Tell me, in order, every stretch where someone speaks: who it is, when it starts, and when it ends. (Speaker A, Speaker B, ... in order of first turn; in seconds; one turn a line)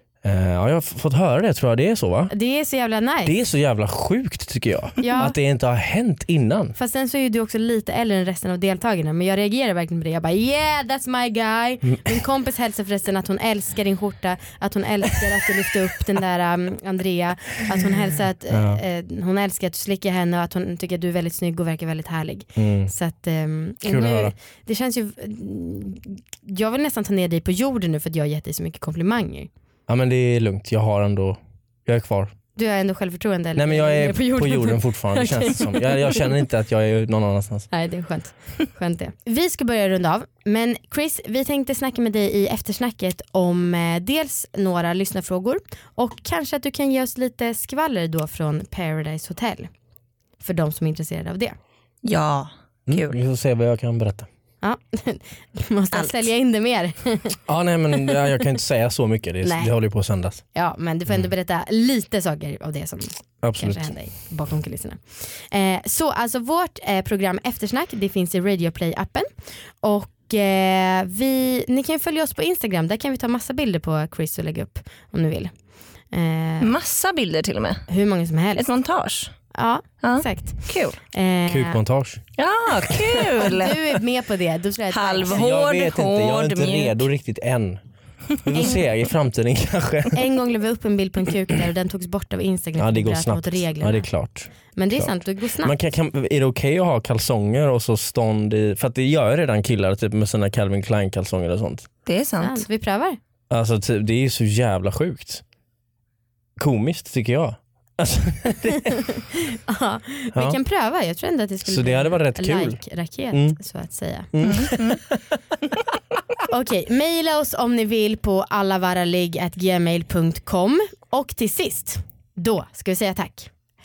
Speaker A: 0.2-2.3
Speaker B: 2.3-3.3
Speaker A: 3.2-6.8
Speaker B: 5.0-5.3
Speaker B: 6.8-29.5
Speaker A: 18.5-18.8
Speaker A: 22.6-22.9
Speaker A: 23.8-24.4
Speaker A: 29.9-32.3
Speaker B: 32.6-36.3
Speaker A: 33.6-37.7
Speaker B: 37.7-49.7
Speaker B: 50.4-51.6
Speaker C: 52.0-53.2
Speaker A: 52.9-54.3
Speaker B: 54.6-57.4
Speaker C: 55.9-56.3
Speaker A: 57.5-60.4
Speaker B: 59.4-59.7
Speaker B: 60.5-69.3
Speaker A: 63.4-63.9
Speaker B: 69.8-75.5
Speaker B: 76.1-76.7
Speaker C: 76.6-77.9
Speaker B: 77.9-78.7
Speaker C: 78.6-79.3
Speaker B: 79.5-81.8
Speaker C: 80.0-81.0
Speaker A: 81.5-82.2
Speaker C: 82.4-83.9
Speaker B: 83.4-85.5
Speaker C: 84.9-87.0
Speaker A: 85.3-87.8
Speaker A: 88.4-90.2
Speaker B: 90.1-94.1
Speaker A: 92.8-95.1
Speaker B: 94.8-95.7
Speaker A: 95.6-101.9
Speaker C: 102.1-102.6
Speaker B: 102.4-103.2
Speaker A: 103.5-105.4
Speaker A: 106.6-109.0
Speaker B: 108.9-114.3
Speaker A: 111.7-112.8
Speaker A: 113.3-113.6
Speaker A: 114.3-115.2
Speaker C: 114.4-115.0
Speaker B: 116.5-123.5